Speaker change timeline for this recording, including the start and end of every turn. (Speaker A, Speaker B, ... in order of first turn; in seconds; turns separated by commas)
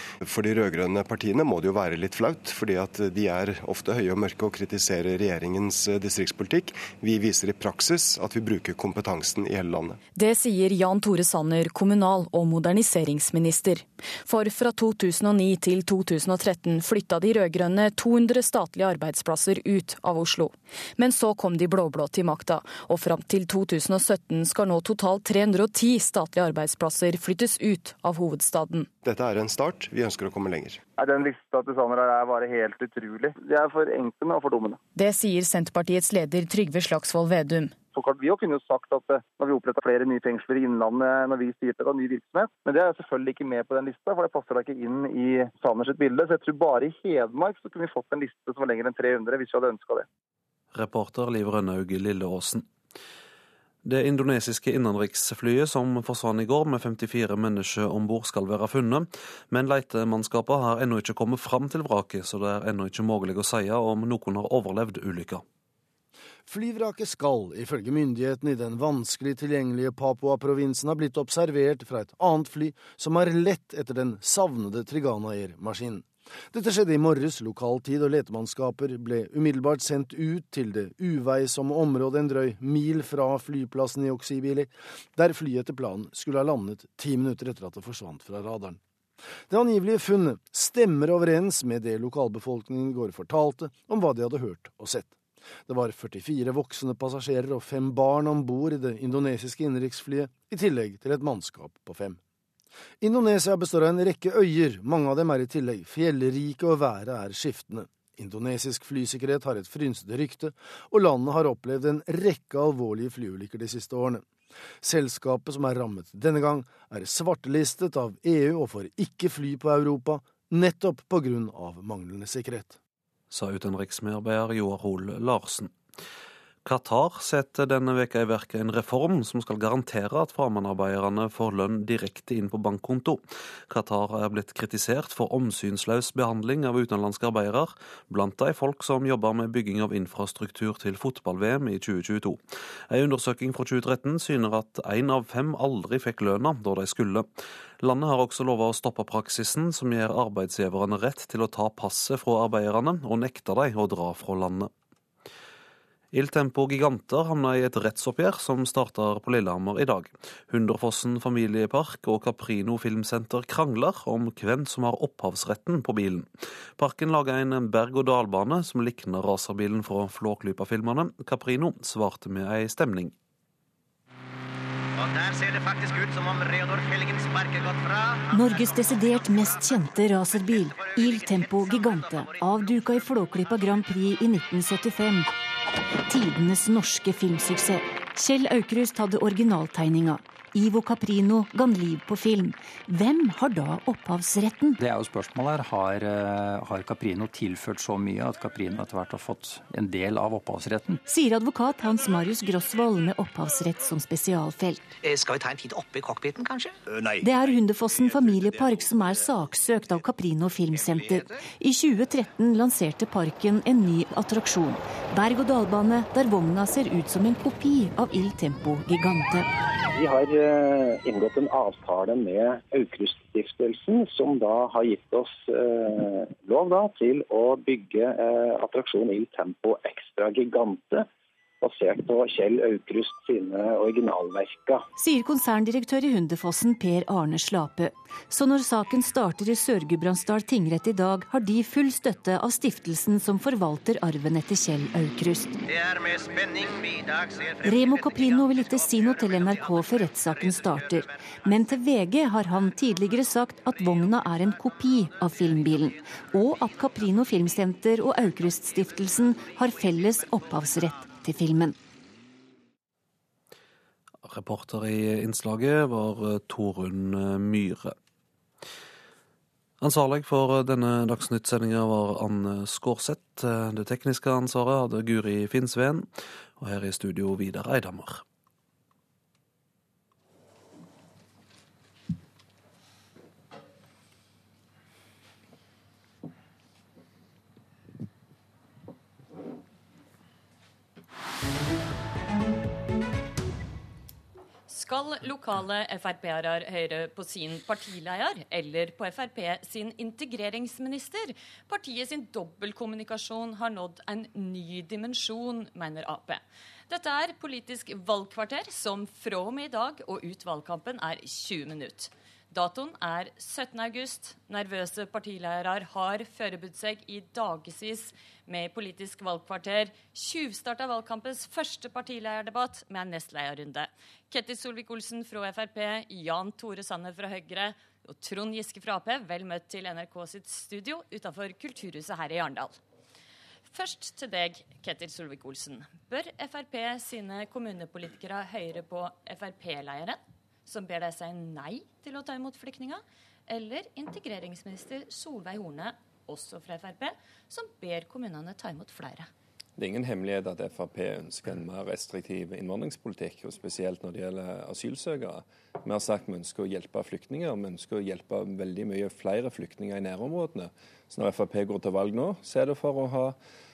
Speaker A: 0.2-10.0, Speaker B: 10.2-28.9, Speaker A: 29.0-30.8, Speaker C: 31.0-34.8, Speaker B: 35.0-37.7, Speaker C: 37.9-50.0, Speaker D: 50.7-52.6, Speaker D: 53.8-65.4, Speaker E: 66.5-88.8, Speaker E: 89.5-95.1, Speaker E: 95.7-102.2, Speaker E: 103.0-114.2, Speaker E: 114.8-122.8, Speaker D: 123.3-125.7, Speaker D: 126.6-147.3, Speaker D: 147.8-154.7, Speaker D: 156.1-173.1, Speaker F: 175.0-178.2, Speaker G: 178.3-185.3, Speaker G: 186.1-194.8, Speaker H: 194.8-201.0, Speaker G: 201.0-204.9, Speaker G: 207.2-219.5, Speaker I: 219.9-231.1, Speaker I: 231.6-234.8, Speaker G: 235.0-245.6, Speaker F: 245.7-247.6, Speaker G: 247.6-261.7, Speaker F: 249.1-250.7, Speaker D: 264.2-267.9, Speaker D: 269.8-278.2, Speaker J: 294.7-332.8, Speaker J: 333.7-349.3, Speaker K: 349.8-363.3